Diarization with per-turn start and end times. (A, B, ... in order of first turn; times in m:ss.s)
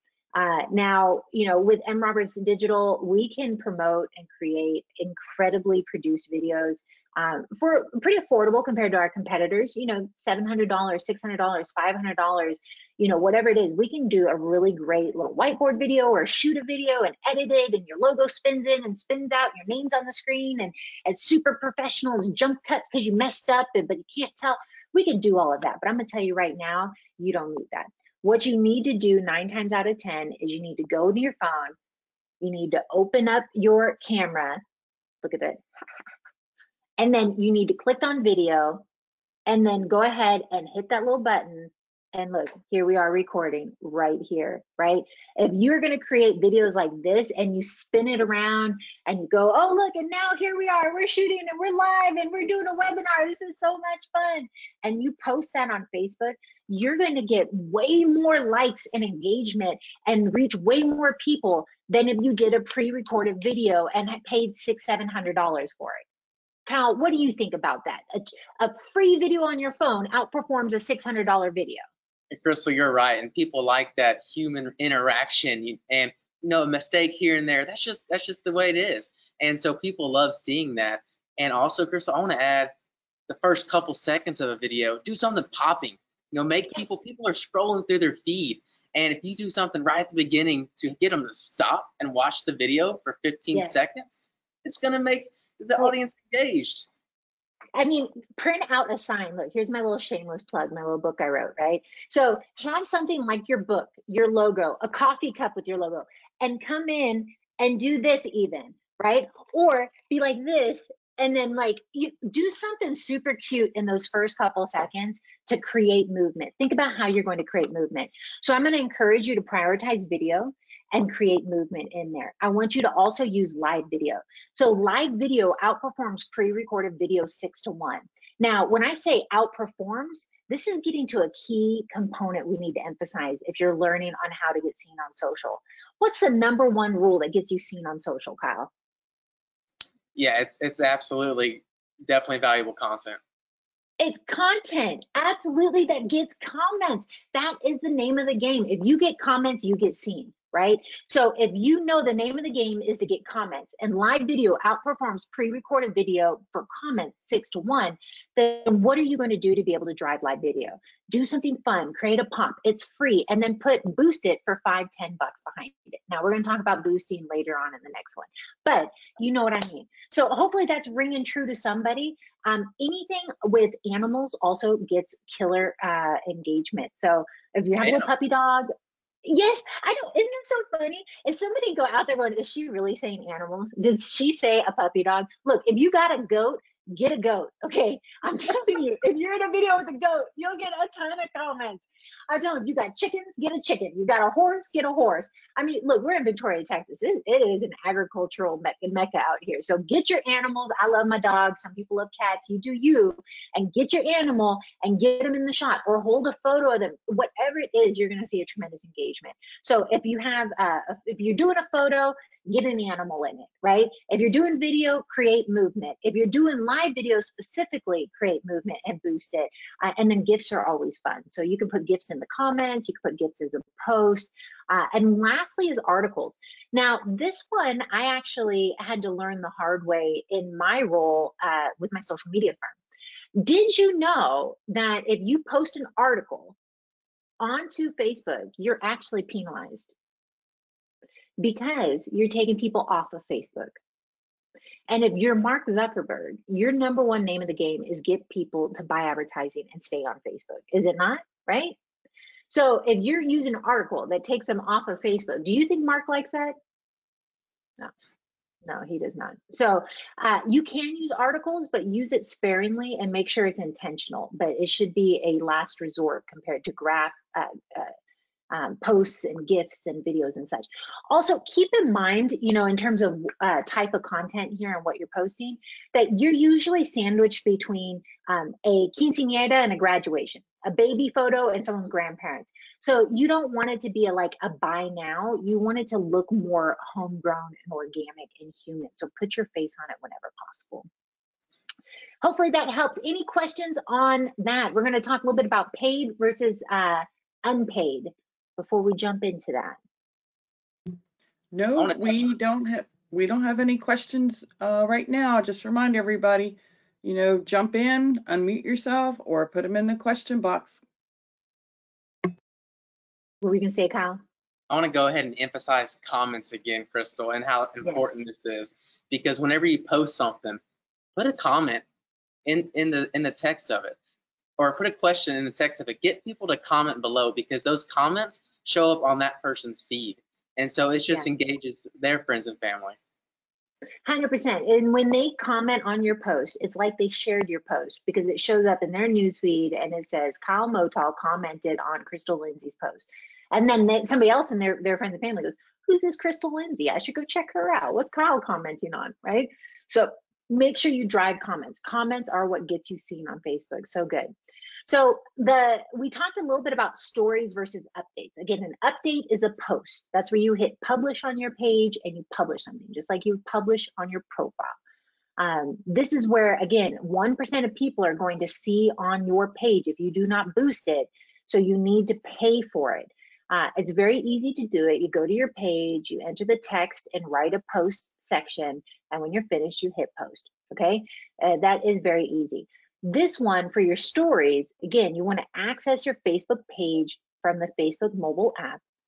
0:00.4-0:31.8 A
0:32.4-0:34.6 A
0:35.2-0:35.6 A
0:37.0-0:38.8 A
0:39.5-1:06.0 A
1:06.7-1:11.8 A
1:12.3-1:22.7 B
1:23.3-1:36.9 B
1:33.5-1:33.8 A
1:37.8-2:18.7 A
2:20.2-2:23.2 B
2:24.0-2:58.7 A
2:57.8-2:58.1 B
2:59.2-3:52.8 A
3:53.4-3:56.6 A
3:57.4-3:59.9 A
4:01.4-4:03.8 A
4:04.9-4:11.8 A
4:12.5-4:16.6 A
4:18.6-4:27.9 A
4:28.5-4:50.9 A
4:52.2-4:59.8 A
5:01.5-5:10.8 C
5:01.8-5:02.2 B
5:13.4-5:14.2 A
5:14.7-5:20.6 B
5:17.8-5:18.2 A
5:21.2-5:21.8 B
5:22.5-5:24.0 B
5:24.6-5:33.0 B
5:34.1-5:54.3 A
5:54.9-6:04.8 A
6:05.4-6:28.8 A